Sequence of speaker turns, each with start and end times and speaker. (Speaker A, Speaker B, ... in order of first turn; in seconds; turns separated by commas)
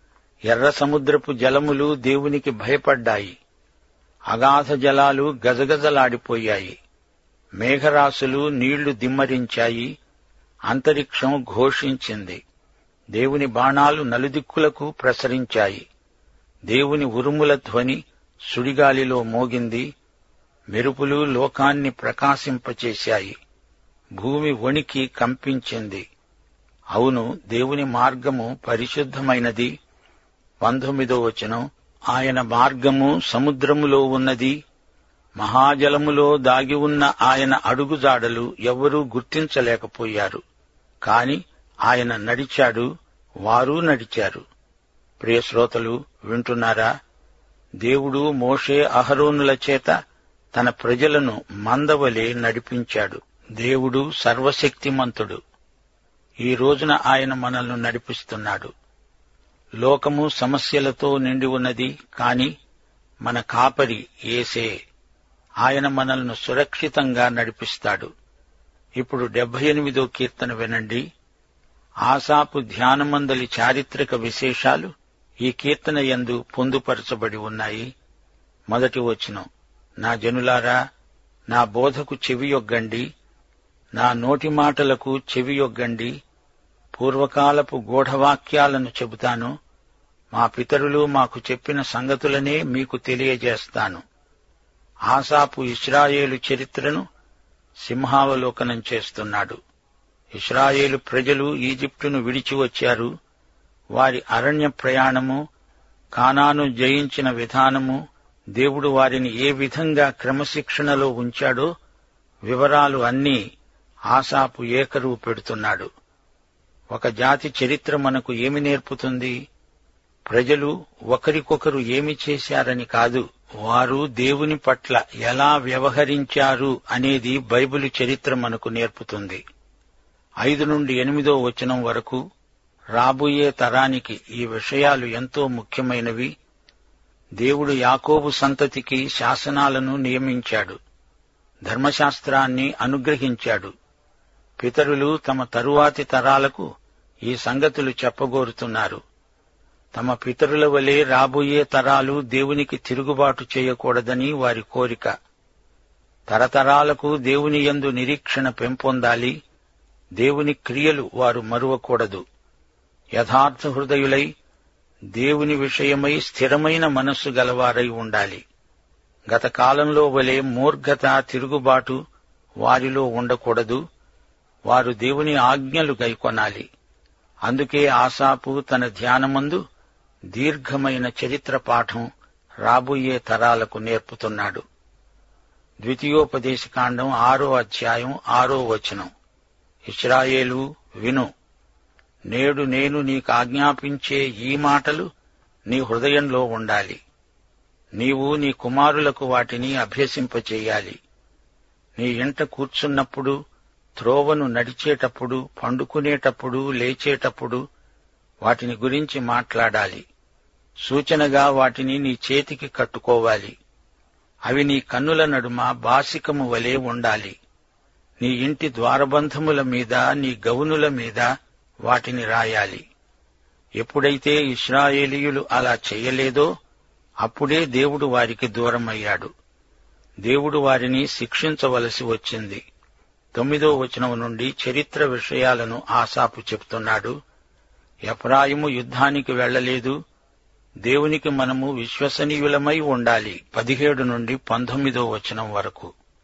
Speaker A: 0.5-3.4, Speaker A: 4.3-6.8, Speaker A: 7.6-9.9, Speaker A: 10.7-12.4, Speaker A: 13.2-15.8, Speaker A: 16.7-19.9, Speaker A: 20.7-23.4, Speaker A: 24.2-26.0, Speaker A: 26.9-29.7, Speaker A: 30.6-34.5, Speaker A: 35.4-40.4, Speaker A: 41.1-42.9, Speaker A: 43.5-44.4, Speaker A: 45.2-46.9, Speaker A: 47.8-50.0, Speaker A: 50.5-55.4, Speaker A: 56.5-58.7, Speaker A: 59.8-62.5, Speaker A: 63.2-64.7, Speaker A: 65.6-68.1, Speaker A: 69.0-71.0, Speaker A: 72.1-74.9, Speaker A: 75.4-77.9, Speaker A: 78.7-79.5, Speaker A: 80.0-80.8, Speaker A: 81.5-83.1, Speaker A: 84.0-86.1, Speaker A: 86.9-89.5, Speaker A: 90.3-94.0, Speaker A: 95.1-97.0, Speaker A: 97.8-99.6, Speaker A: 100.4-103.1, Speaker A: 104.0-105.4, Speaker A: 106.2-108.0, Speaker A: 108.6-111.7, Speaker A: 112.5-113.4, Speaker A: 114.1-115.9, Speaker A: 116.9-119.3, Speaker A: 120.3-129.4, Speaker A: 130.4-132.2, Speaker A: 133.0-136.3, Speaker A: 137.4-140.8, Speaker A: 141.7-143.7, Speaker A: 144.6-146.7, Speaker A: 147.3-149.0, Speaker A: 149.9-155.1, Speaker A: 156.3-159.3, Speaker A: 160.2-162.2, Speaker A: 163.2-164.3, Speaker A: 165.2-168.4, Speaker A: 169.3-172.0, Speaker A: 172.6-173.8, Speaker A: 174.7-176.7, Speaker A: 177.5-179.6, Speaker A: 180.3-182.1, Speaker A: 182.7-184.6, Speaker A: 185.8-189.1, Speaker A: 189.9-191.3, Speaker A: 192.3-195.1, Speaker A: 195.7-197.0, Speaker A: 198.0-201.0, Speaker A: 202.0-203.3, Speaker A: 204.0-207.6, Speaker A: 208.4-210.0, Speaker A: 210.8-213.6, Speaker A: 214.5-217.4, Speaker A: 218.2-221.3, Speaker A: 221.9-222.8, Speaker A: 223.8-226.5, Speaker A: 227.2-229.3, Speaker A: 230.2-232.6, Speaker A: 233.3-237.2, Speaker A: 238.1-240.0, Speaker A: 240.9-245.9